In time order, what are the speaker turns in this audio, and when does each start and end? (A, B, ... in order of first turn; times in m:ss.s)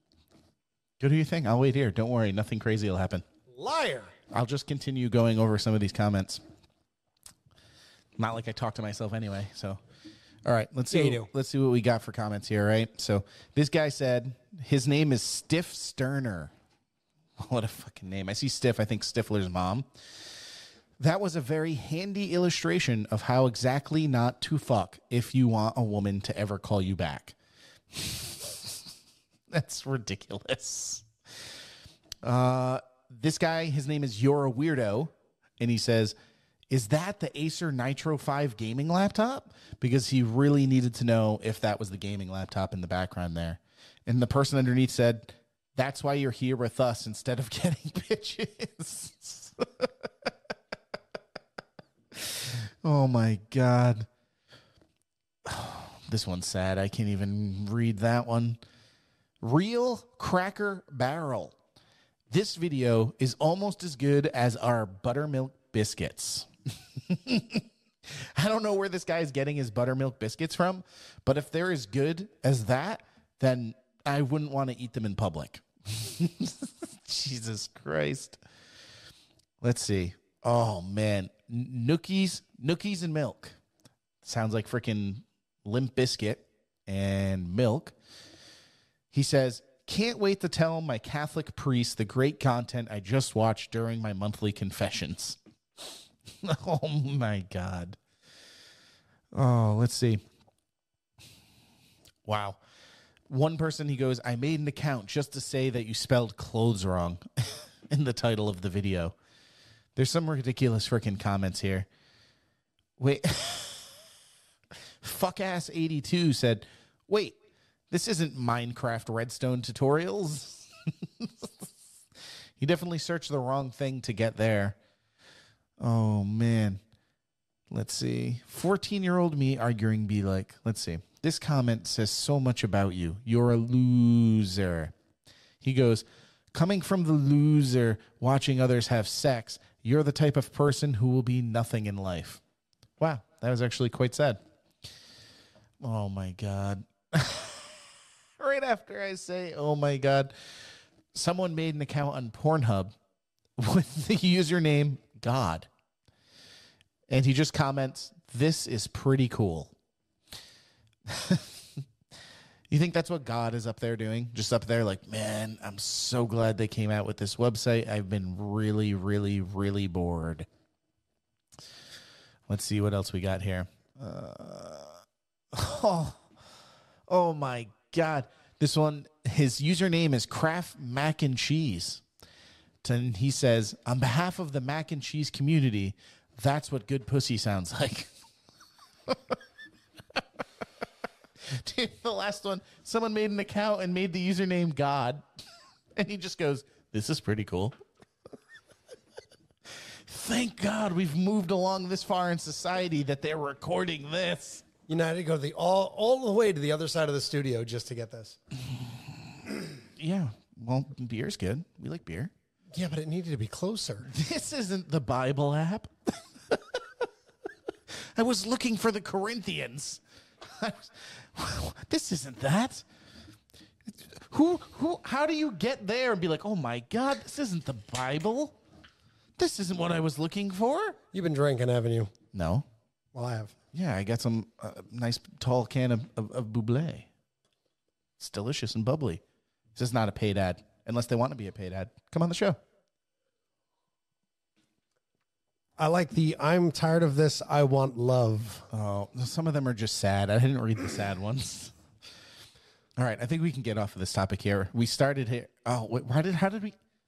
0:01.0-0:03.2 A
0:03.5-0:04.1 B
0:04.3-0:06.4 A
0:08.2-0:09.8 A
0:10.4-0:16.5 A
0:10.9-0:11.3 B
0:17.4-0:19.9 A
0:21.0-0:27.4 A
0:27.9-0:28.8 A
0:29.5-0:31.1 A
0:32.2-0:36.2 A
0:36.7-0:49.9 A
0:52.1-0:54.1 A
0:55.4-0:58.6 A
0:59.4-1:01.5 A
1:02.3-1:18.4 A
1:19.6-1:23.6 A
1:24.2-1:27.9 A
1:29.1-1:35.9 A
1:36.4-1:38.0 A
1:39.3-1:40.2 A
1:42.2-1:42.6 A
1:43.3-1:49.1 A
1:50.0-1:51.9 A
1:53.0-1:54.0 A
1:55.0-1:57.4 A
1:57.9-2:00.7 A
2:01.2-2:01.6 A
2:02.6-2:04.8 A
2:05.8-2:06.8 A
2:07.7-2:14.9 A
2:15.6-2:22.4 A
2:23.0-2:24.4 A
2:25.8-2:27.9 A
2:28.4-2:30.3 A
2:31.1-2:32.9 A
2:33.6-2:35.7 A
2:37.1-2:39.7 A
2:41.1-2:41.6 A
2:42.7-2:50.5 A
2:52.5-2:55.0 A
2:55.5-2:56.2 A
2:57.1-3:02.0 A
3:02.8-3:08.1 A
3:09.1-3:09.3 A
3:11.5-3:15.2 A
3:16.0-3:17.8 A
3:20.0-3:24.6 A
3:24.9-3:28.4 B
3:28.7-3:29.4 A
3:30.0-3:32.3 A
3:32.7-3:34.1 B
3:34.0-3:36.8 A
3:38.1-3:42.8 A
3:43.9-3:48.6 A
3:49.4-3:51.0 A
3:51.1-3:52.1 B
3:52.3-3:52.6 A
3:53.1-3:53.5 B
3:53.7-3:57.1 A
3:58.2-3:59.2 A
3:59.7-4:02.6 A
4:05.8-4:08.6 B
4:08.7-4:11.7 A
4:13.0-4:16.8 A